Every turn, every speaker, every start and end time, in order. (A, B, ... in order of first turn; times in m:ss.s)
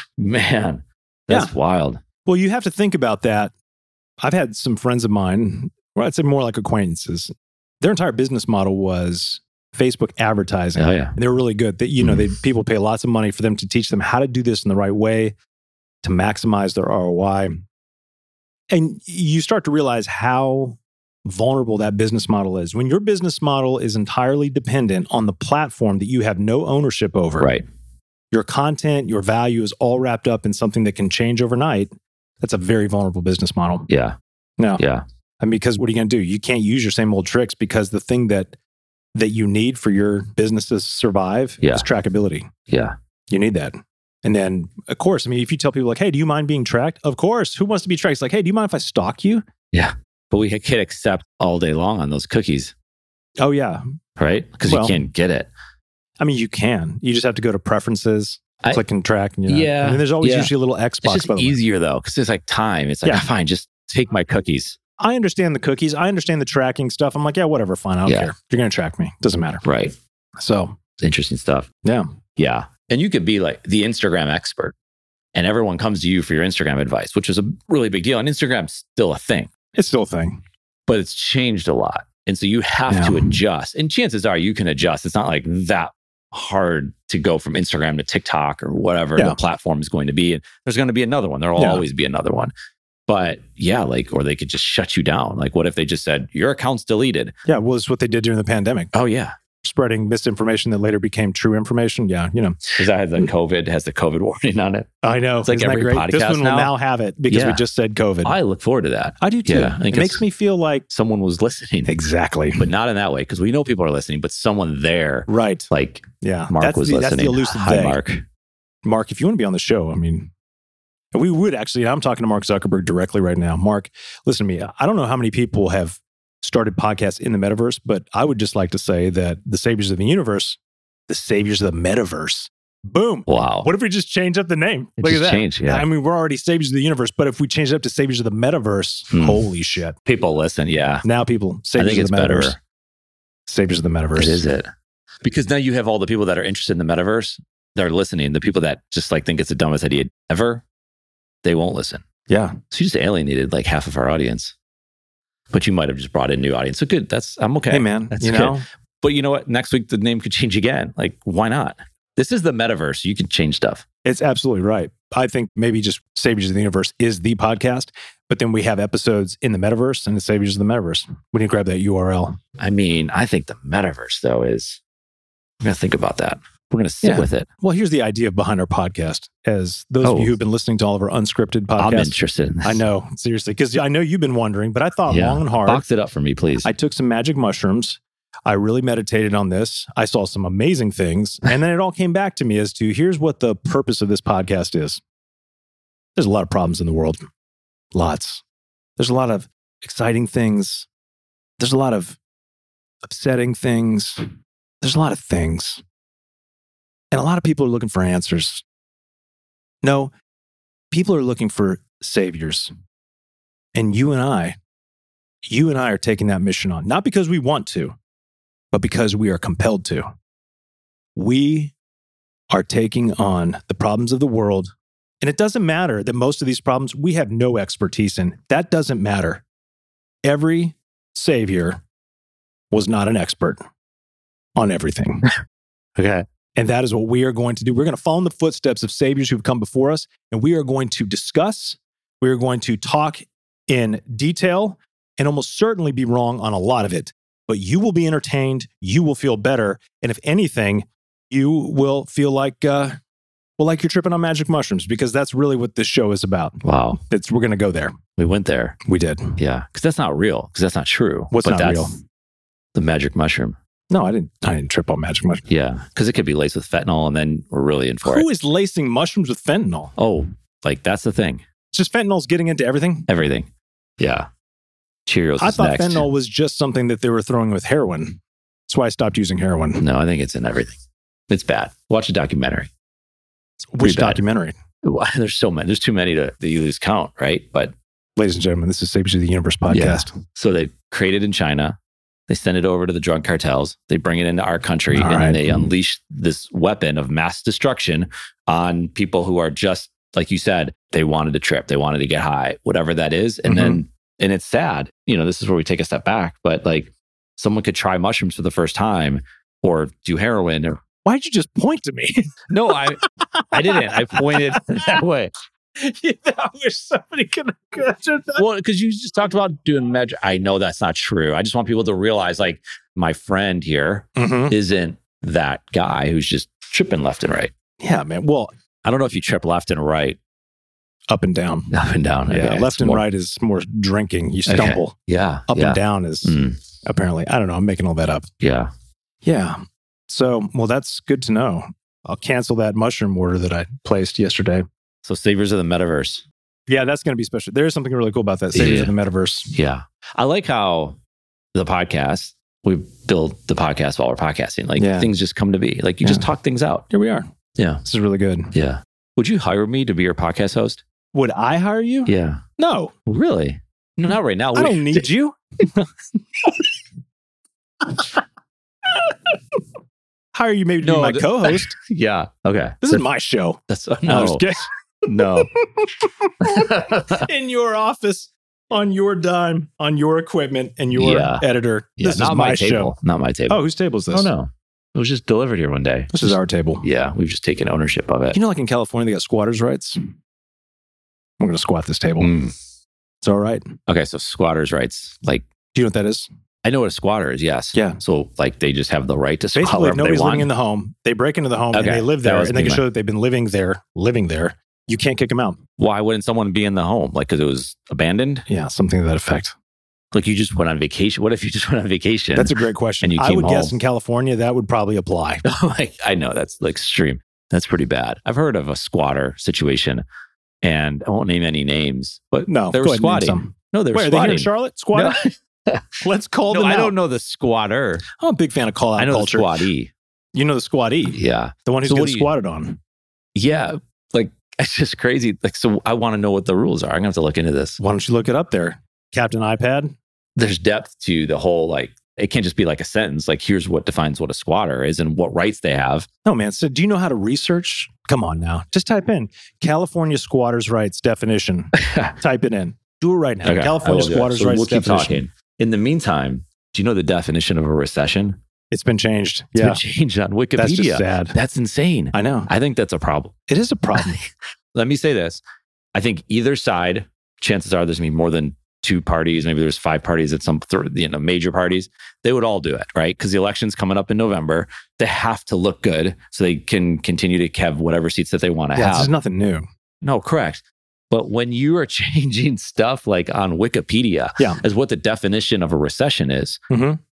0:00.2-0:02.0 A
0:02.3-0:03.5 B
0:04.2-0:15.3 B
0:10.8-0:11.1 A
0:12.0-0:12.3 A
0:16.0-0:17.6 B
0:18.7-0:27.6 B
0:28.3-0:33.9 B
0:33.9-0:34.2 A
0:34.8-0:35.0 A
0:35.4-0:38.5 B
0:39.2-0:42.5 B
0:42.7-0:43.0 A
0:43.3-0:49.5 B
0:49.7-0:52.7 A
0:53.4-0:53.8 B
0:54.2-0:55.5 A
0:54.7-0:55.0 B
0:56.2-1:01.6 B
0:59.5-1:00.5 A
1:01.0-1:04.8 A
1:05.0-1:09.6 B
1:08.1-1:08.3 A
1:09.6-1:10.0 A
1:10.4-1:10.8 B
1:11.0-1:11.7 A
1:12.4-1:14.8 A
1:15.3-1:19.5 A
1:19.8-1:20.4 B
1:20.9-1:32.5 A
1:22.9-1:23.4 B
1:31.6-1:31.8 B
1:33.1-1:37.3 A
1:37.5-1:38.9 B
1:38.9-1:39.4 A
1:39.6-1:42.8 B
1:42.8-1:44.9 A
1:45.0-1:48.4 B
1:45.4-1:46.7 A
1:47.3-1:47.6 A
1:48.2-1:50.2 A
1:49.2-1:50.8 B
1:50.9-1:51.9 A
1:51.9-1:52.7 B
1:52.6-1:58.2 A
1:55.3-1:55.7 B
1:56.2-1:58.0 B
1:58.8-2:00.3 B
2:01.1-2:20.0 B
2:13.3-2:13.7 A
2:15.0-2:15.9 A
2:19.1-2:19.4 A
2:20.1-2:21.0 A
2:21.0-2:22.6 B
2:21.8-2:22.6 A
2:23.5-2:24.4 B
2:24.2-2:24.7 A
2:25.2-2:30.6 A
2:31.4-2:32.0 A
2:32.3-2:32.6 B
2:32.7-2:34.5 A
2:35.5-2:43.8 A
2:37.7-2:38.6 B
2:44.0-2:52.4 B
2:52.6-2:54.8 A
2:55.6-2:57.5 A
2:57.0-3:05.8 B
3:00.0-3:00.4 A
3:01.8-3:02.8 A
3:05.1-3:06.7 A
3:06.6-3:15.0 B
3:16.2-3:17.3 B
3:17.9-3:18.4 B
3:19.0-3:20.9 B
3:21.6-3:22.2 B
3:23.0-3:24.2 B
3:24.8-3:25.8 B
3:27.1-3:28.6 B
3:29.8-3:30.1 B
3:30.9-3:32.7 B
3:33.8-3:34.6 B
3:35.5-3:38.0 B
3:38.7-3:40.1 B
3:41.2-3:41.7 B
3:42.5-3:49.4 B
3:50.2-3:51.8 B
3:52.7-3:53.6 B
3:54.6-3:55.3 B
3:56.0-3:56.3 A
3:56.6-4:13.0 B
4:13.6-4:18.0 B
4:16.6-4:17.0 A
4:18.2-4:18.8 A
4:18.8-4:19.4 B
4:19.4-4:21.9 A
4:21.3-4:22.0 B
4:22.8-4:23.6 A
4:23.9-4:25.4 B
4:25.5-4:28.3 A
4:28.0-4:29.9 B
4:30.0-4:31.4 A
4:31.7-4:33.1 B
4:33.1-4:34.3 A
4:35.1-4:36.1 A
4:35.4-4:39.8 B
4:39.8-4:40.8 A
4:41.3-4:42.7 A
4:43.6-4:44.6 B
4:43.8-4:44.2 A
4:44.8-4:47.7 A
4:48.2-4:50.1 B
4:49.7-4:51.8 A
4:52.3-5:10.8 A
4:54.9-4:55.7 B
5:03.5-5:03.8 B
5:11.0-5:15.0 B
5:12.5-5:13.0 A
5:13.5-5:15.3 A
5:15.8-5:18.5 B
5:18.4-5:27.5 A
5:24.2-5:24.6 B
5:27.8-5:28.5 B
5:28.8-5:30.2 A
5:31.1-5:31.7 B
5:31.7-5:33.0 A
5:32.3-5:35.0 B
5:34.5-5:36.6 A
5:35.5-5:38.3 B
5:38.4-5:38.7 A
5:39.2-5:44.6 B
5:45.0-5:46.2 A
5:46.7-5:49.5 B
5:48.5-5:48.9 A
5:49.5-5:51.0 A
5:51.5-5:56.8 A
5:54.8-5:55.1 B
5:56.9-5:57.3 B
5:57.6-5:57.8 A
5:57.8-5:58.5 B
5:58.5-6:00.8 A
6:01.1-6:02.9 B
6:02.1-6:02.4 A
6:03.1-6:05.1 A
6:04.6-6:06.6 B
6:07.8-6:08.2 B
6:08.9-6:09.3 B
6:10.4-6:11.8 B
6:10.8-6:13.0 A
6:12.8-6:22.9 B
6:13.7-6:14.5 A
6:15.1-6:15.5 A
6:16.4-6:17.3 A
6:21.0-6:21.4 A
6:22.0-6:23.6 A
6:23.5-6:24.3 B
6:24.1-6:28.4 A
6:26.1-6:26.8 B
6:28.3-6:30.0 B
6:31.4-6:32.3 B
6:32.2-6:32.6 A
6:33.2-6:33.6 B
6:33.9-6:35.5 A
6:35.7-6:36.3 B
6:36.6-6:40.5 A
6:37.7-6:38.0 B
6:39.6-6:45.6 B
6:41.7-6:42.8 A
6:45.8-6:48.4 A
6:48.5-6:49.6 B
6:50.1-6:53.8 A
6:52.4-6:55.4 B
6:55.4-7:00.0 A
7:00.6-7:05.9 A
7:02.5-7:05.2 B
7:06.0-7:07.0 B
7:06.5-7:08.0 A
7:08.1-7:09.6 B
7:09.0-7:09.9 A
7:10.4-7:12.8 B
7:11.1-7:12.3 A
7:13.4-7:17.8 A
7:17.8-7:20.0 B
7:20.4-7:26.1 A
7:26.2-7:35.2 B
7:31.8-7:32.2 A
7:33.4-7:38.4 A
7:38.7-7:39.8 B
7:39.6-7:43.3 A
7:40.6-7:41.4 B
7:42.1-7:42.5 B
7:43.5-7:44.2 B
7:44.0-7:45.4 A
7:45.9-7:59.1 A
7:58.8-7:59.6 B
8:00.0-8:06.6 A
8:06.7-8:07.0 B